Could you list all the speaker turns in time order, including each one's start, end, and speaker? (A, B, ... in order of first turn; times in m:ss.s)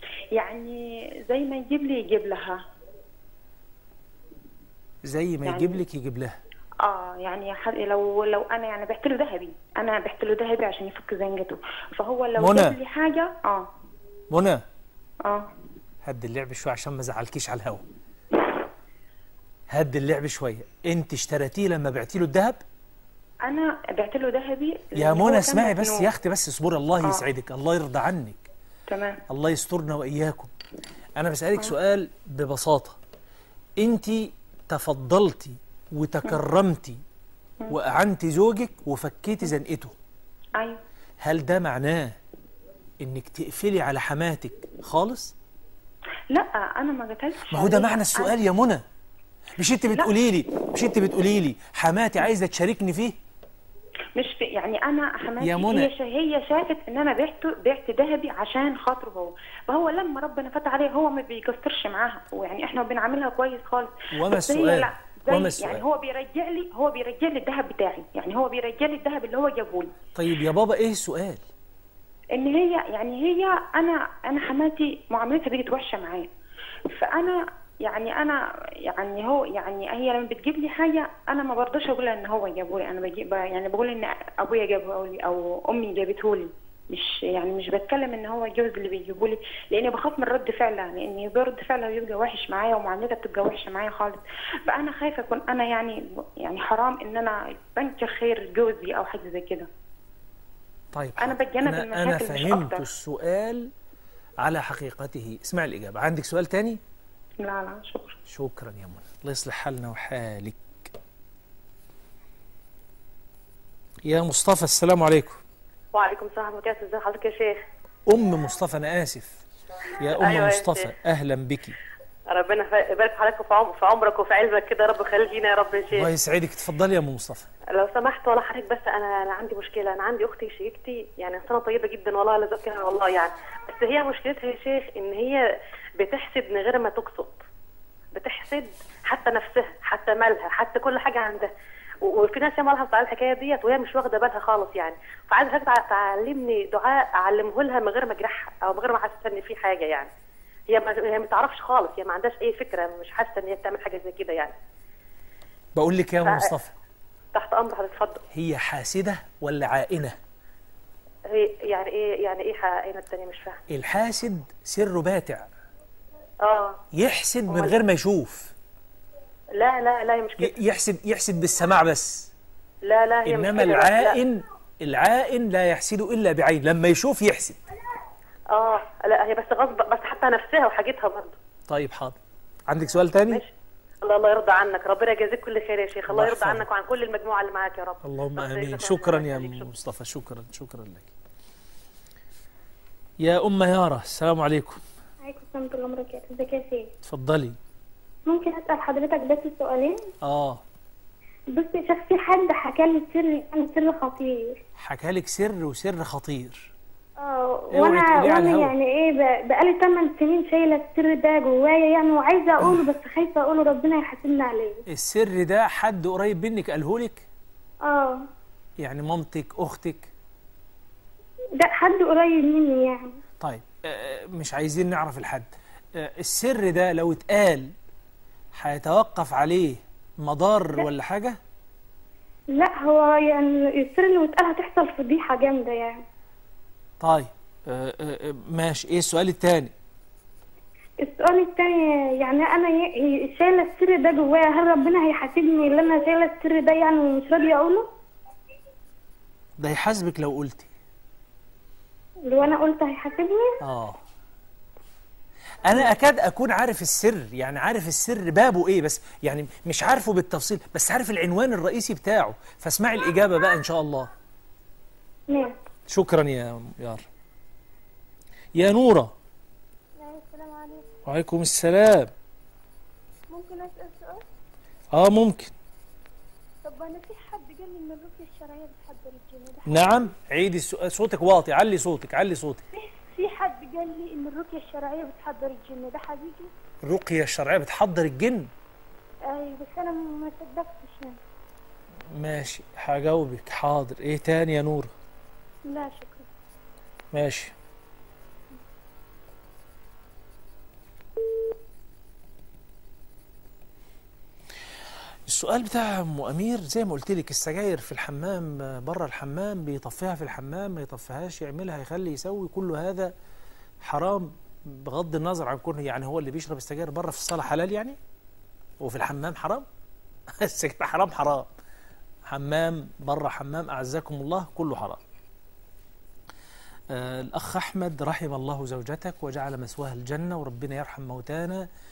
0:00.4-0:02.6 A
0:05.0-0:06.4 B
0:05.4-0:05.8 A
0:06.8-0:13.7 A
0:12.4-0:12.8 B
0:14.3-0:14.6 B
0:15.2-0:15.5 A
0:16.0-0:17.8 B
0:19.7-0:22.6 B
0:23.5-0:26.1 A
0:25.0-0:28.5 B
0:28.9-0:29.2 A
0:29.3-0:30.5 B
0:31.2-0:33.0 B
0:33.8-0:37.0 B
0:37.7-0:40.0 B
0:41.2-0:42.2 B
0:43.0-0:45.3 B
0:46.3-0:48.4 A
0:47.5-0:48.8 B
0:49.6-0:53.2 B
0:54.2-1:09.9 A
0:55.4-0:55.9 B
1:04.1-1:05.8 B
1:10.2-1:11.4 B
1:12.4-1:16.3 A
1:16.9-1:39.7 A
1:40.9-1:43.7 B
1:41.2-1:42.8 A
1:44.4-1:46.8 B
1:47.4-1:48.2 A
1:48.3-1:50.9 B
1:54.0-1:55.4 B
1:55.9-1:57.6 C
1:58.1-1:59.4 B
2:00.0-2:01.8 B
2:00.2-2:00.9 C
2:02.3-2:06.1 C
2:05.9-2:07.5 B
2:07.7-2:15.4 C
2:16.0-2:17.4 C
2:18.1-2:21.5 C
2:22.0-2:30.1 C
2:30.7-2:34.6 C
2:35.8-2:36.7 B
2:36.2-2:36.5 C
2:37.3-2:38.2 C
2:38.3-2:40.2 B
2:41.3-2:43.6 C
2:43.7-2:45.5 B
2:46.4-2:46.8 C
2:46.9-2:48.5 B
2:47.5-2:47.8 C
2:49.6-2:50.5 C
2:50.4-2:52.3 B
2:52.9-2:54.2 C
2:53.2-2:57.6 B
2:58.5-3:01.4 C
3:01.7-3:02.2 B
3:02.7-3:03.4 B
3:04.0-3:09.7 C
3:06.1-3:06.7 B
3:08.0-3:11.1 B
3:13.2-3:14.8 B
3:15.2-3:16.9 D
3:17.0-3:17.6 B
3:18.3-3:20.1 D
3:20.2-3:20.6 B
3:21.6-3:24.6 D
3:24.8-3:26.7 B
3:27.2-3:34.8 D
3:27.7-3:28.7 B
3:32.6-3:32.9 B
3:34.9-3:37.3 B
3:37.8-3:38.2 D
3:38.8-3:40.1 B
3:41.6-3:43.2 D
3:43.4-3:47.7 B
3:48.6-3:51.4 B
3:52.6-3:56.0 D
3:57.0-3:59.7 B
4:01.0-4:07.9 D
4:09.6-4:10.7 B
4:12.3-4:13.6 D
4:13.6-4:14.0 B
4:15.6-4:24.1 B
4:25.9-4:27.1 B
4:28.6-4:29.1 B
4:30.0-4:30.8 D
4:31.1-4:32.1 B
4:33.3-4:34.2 D
4:34.9-4:35.5 B
4:36.6-4:39.9 D
4:39.7-4:42.6 B
4:43.0-4:46.5 D
4:46.8-4:48.5 B
4:49.3-4:51.1 D
4:52.2-4:54.9 B
4:55.7-4:56.2 D
4:57.1-4:57.5 B
5:05.3-5:13.1 B
5:13.8-5:18.0 B
5:18.8-5:19.7 B
5:20.4-5:21.5 B
5:22.3-5:25.0 B
5:26.9-5:31.7 B